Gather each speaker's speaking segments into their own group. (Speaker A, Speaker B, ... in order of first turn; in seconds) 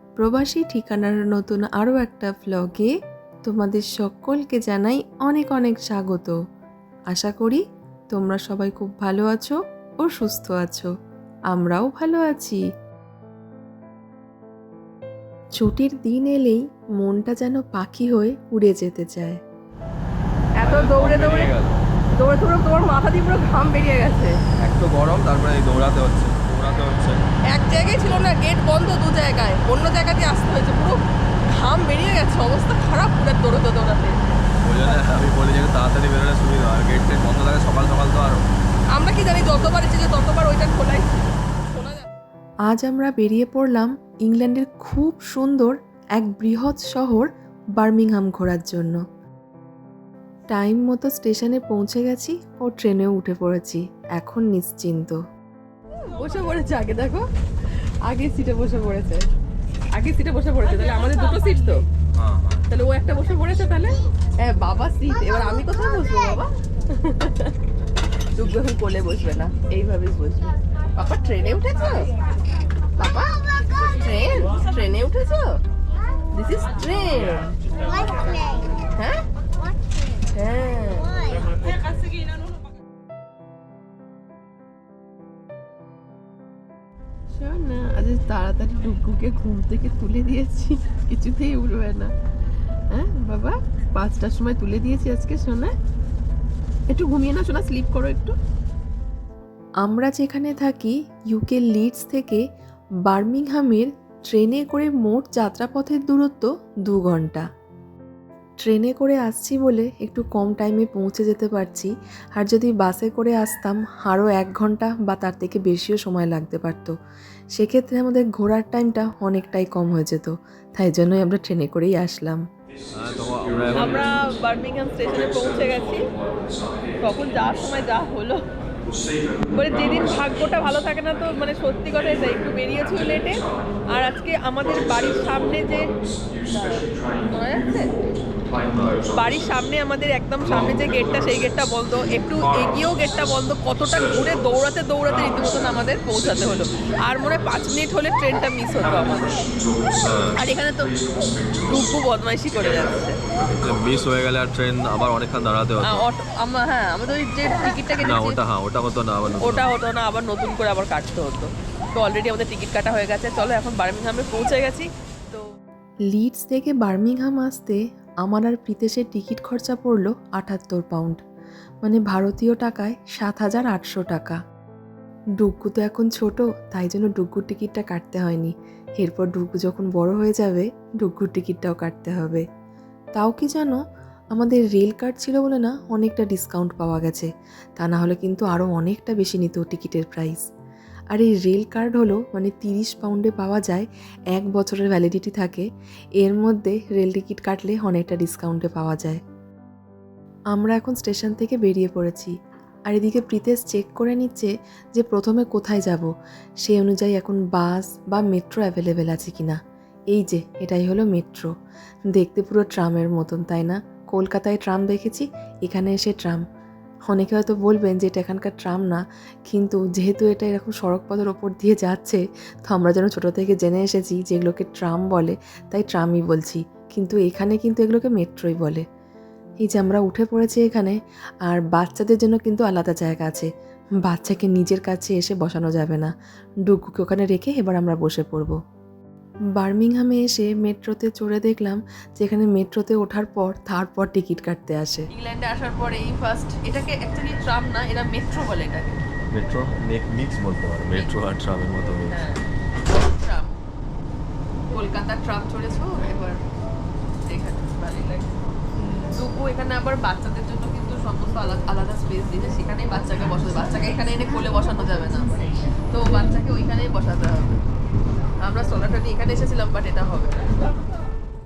Speaker A: 0.2-2.9, 3.5-6.3, 7.1-7.6, 8.1-10.9, 11.5-12.6, 15.6-19.4, 42.7-49.0, 50.5-55.2, 99.8-102.4, 103.1-107.4, 108.7-116.9, 117.6-122.4, 166.1-171.2, 171.8-174.4, 175.4-182.4, 183.2-183.8, 184.3-190.4, 191.1-195.6, 196.2-199.2, 200.5-202.3, 202.9-206.1, 206.6-209.6, 210.1-211.5, 212.1-216.4, 217.1-228.8, 229.7-230.9, 231.5-233.5, 234.1-236.1, 236.7-238.6, 239.6-245.1
Speaker B: 20.6-21.5, 22.2-24.3, 27.5-34.2, 38.9-42.0, 56.0-57.2, 58.1-59.2, 59.9-61.8, 62.7-67.5, 68.4-72.1, 73.0-73.4, 73.9-75.6, 76.3-77.6, 79.0-79.2, 80.3-81.3, 87.3-92.1, 92.9-95.7, 96.9-98.3, 123.7-126.1, 127.0-128.4, 129.5-135.9, 136.5-137.9, 139.1-149.4, 150.4-153.2, 155.8-158.4, 159.4-165.4, 245.1-249.0, 252.1-252.4, 253.1-253.6, 254.7-256.4, 257.2-258.4, 259.1-267.6, 268.4-270.5
Speaker C: 20.6-21.8, 24.6-27.2, 34.6-38.4, 62.2-62.6, 123.0-124.2, 138.6-139.0, 150.0-150.4, 153.5-156.1, 158.0-159.7, 249.3-252.2